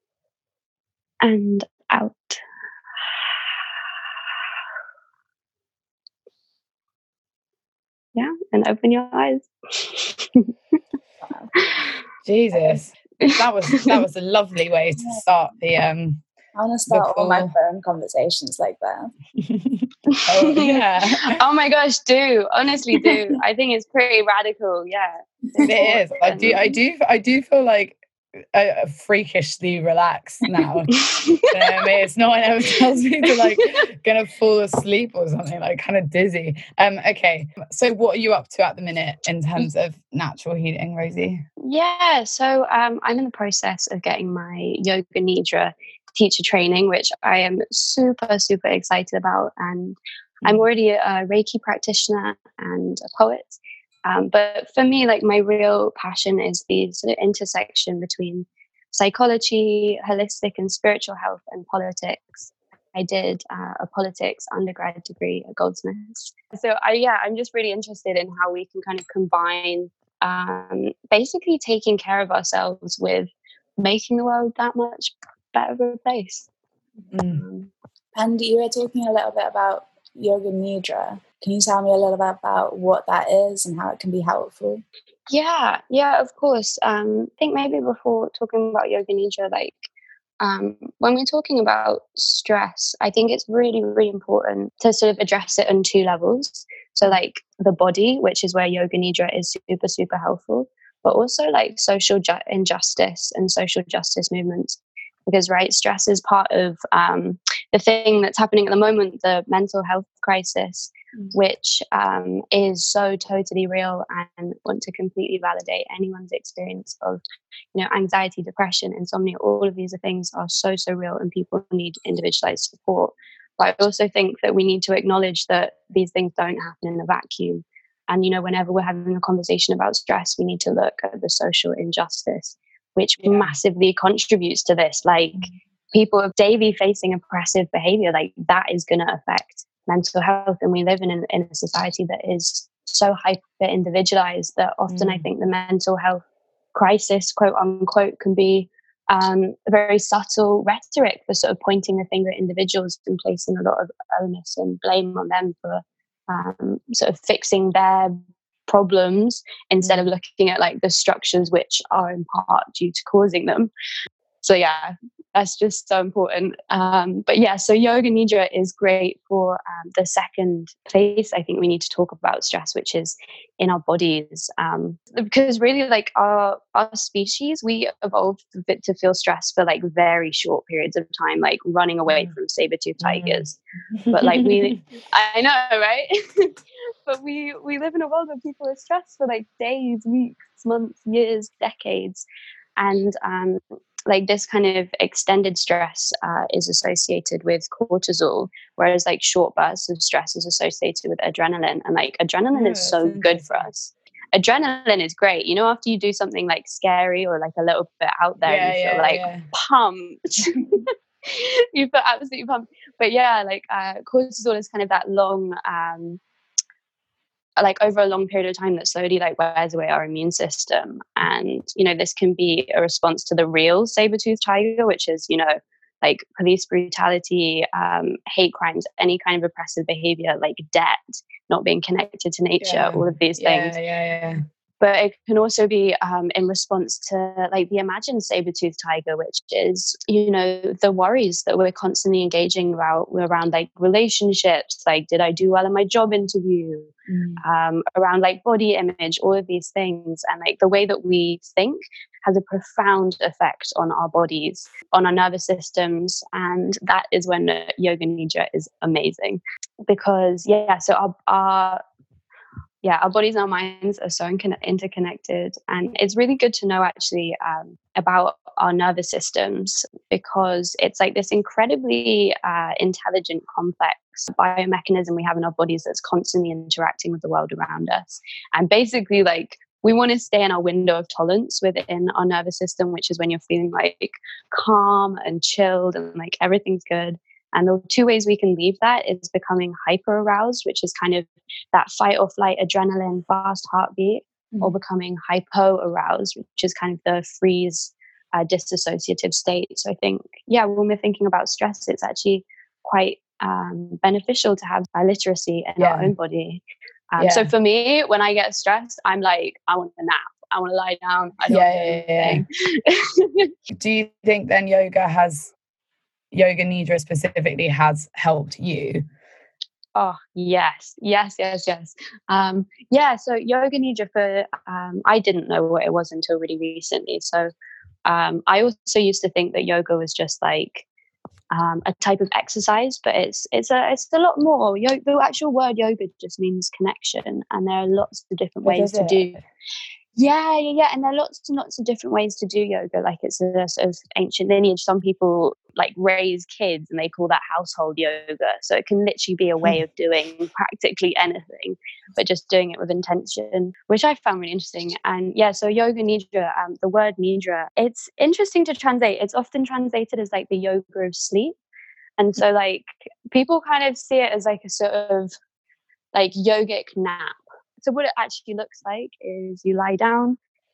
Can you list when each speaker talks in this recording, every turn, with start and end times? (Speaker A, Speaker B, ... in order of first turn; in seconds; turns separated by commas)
Speaker A: 1.2-2.4, Speaker A: 8.1-10.5, Speaker B: 12.2-16.2, Speaker C: 12.5-12.8, Speaker A: 13.2-14.0, Speaker C: 16.5-19.1, Speaker B: 16.9-17.5, Speaker B: 19.4-21.4, Speaker A: 20.1-26.7, Speaker B: 25.6-41.4, Speaker A: 30.9-31.5, Speaker A: 33.4-33.6, Speaker A: 41.6-76.5, Speaker B: 77.1-77.4, Speaker A: 77.3-77.7, Speaker C: 78.1-84.8, Speaker A: 85.3-89.9, Speaker A: 90.4-104.7, Speaker A: 105.3-117.2, Speaker A: 117.7-146.2, Speaker B: 133.2-133.5, Speaker B: 144.9-145.3, Speaker A: 146.7-163.7, Speaker B: 159.8-160.1, Speaker A: 164.4-183.6, Speaker B: 183.0-183.4, Speaker B: 184.0-184.8, Speaker A: 184.1-186.6, Speaker A: 187.1-192.2, Speaker A: 192.8-216.2, Speaker B: 202.5-203.7, Speaker B: 208.4-209.4, Speaker A: 217.6-233.7, Speaker B: 232.6-234.4, Speaker A: 234.8-261.8, Speaker C: 247.1-247.4, Speaker A: 262.8-306.6, Speaker B: 305.8-306.1, Speaker A: 307.1-313.5, Speaker B: 307.2-307.5, Speaker B: 311.5-312.4, Speaker B: 313.7-315.5, Speaker B: 316.3-319.0, Speaker A: 319.9-327.5, Speaker A: 328.1-330.9, Speaker A: 331.5-339.4, Speaker B: 338.6-339.4, Speaker A: 340.1-361.6, Speaker A: 362.2-365.3, Speaker A: 366.1-370.4